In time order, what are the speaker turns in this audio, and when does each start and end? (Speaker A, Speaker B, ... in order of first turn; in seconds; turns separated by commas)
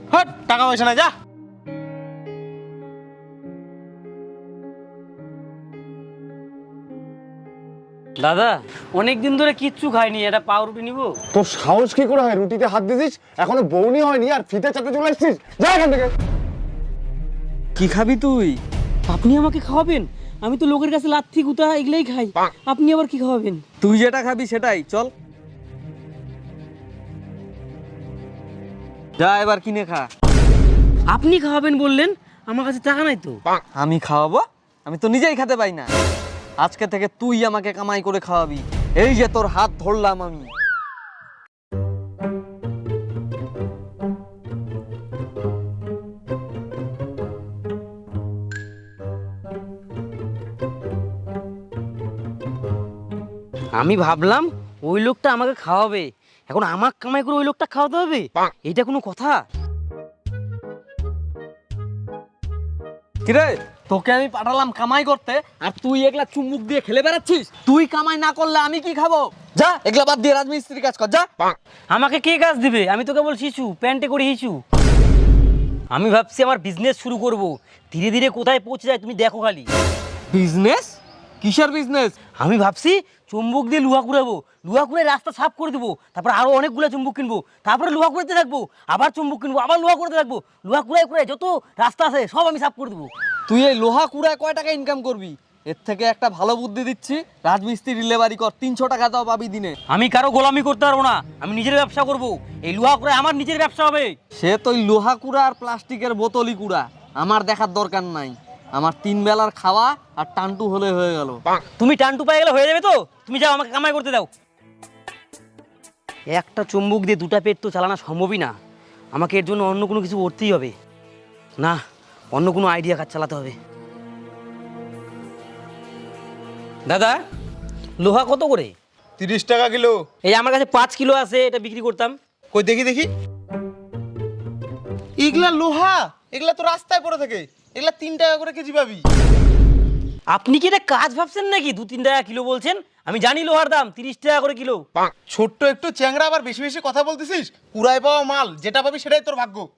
Speaker A: 0.1-1.1, Speaker B: 8.2-11.2, Speaker C: 11.3-16.1, Speaker D: 17.9-18.5, Speaker B: 19.1-23.7, Speaker D: 24.1-25.1, Speaker D: 29.4-30.0, Speaker B: 31.1-33.4, Speaker D: 33.8-35.9, Speaker D: 36.6-38.6, Speaker D: 39.1-40.4, Speaker B: 53.7-59.4, Speaker D: 64.0-67.5, Speaker D: 70.4-71.1, Speaker B: 71.9-74.6, Speaker B: 75.9-79.7, Speaker D: 80.5-80.9, Speaker D: 81.4-81.9, Speaker B: 82.4-93.1, Speaker D: 93.6-95.2, Speaker D: 95.8-99.5, Speaker B: 99.9-104.2, Speaker D: 104.6-106.8, Speaker D: 107.4-111.2, Speaker B: 111.7-114.3, Speaker B: 116.3-118.5, Speaker B: 119.1-120.7, Speaker B: 122.3-123.6, Speaker B: 126.9-127.2, Speaker B: 128.0-128.7, Speaker A: 129.2-130.0, Speaker B: 130.2-132.2, Speaker A: 132.5-133.1, Speaker A: 135.2-139.0, Speaker B: 140.3-144.8, Speaker A: 145.3-149.7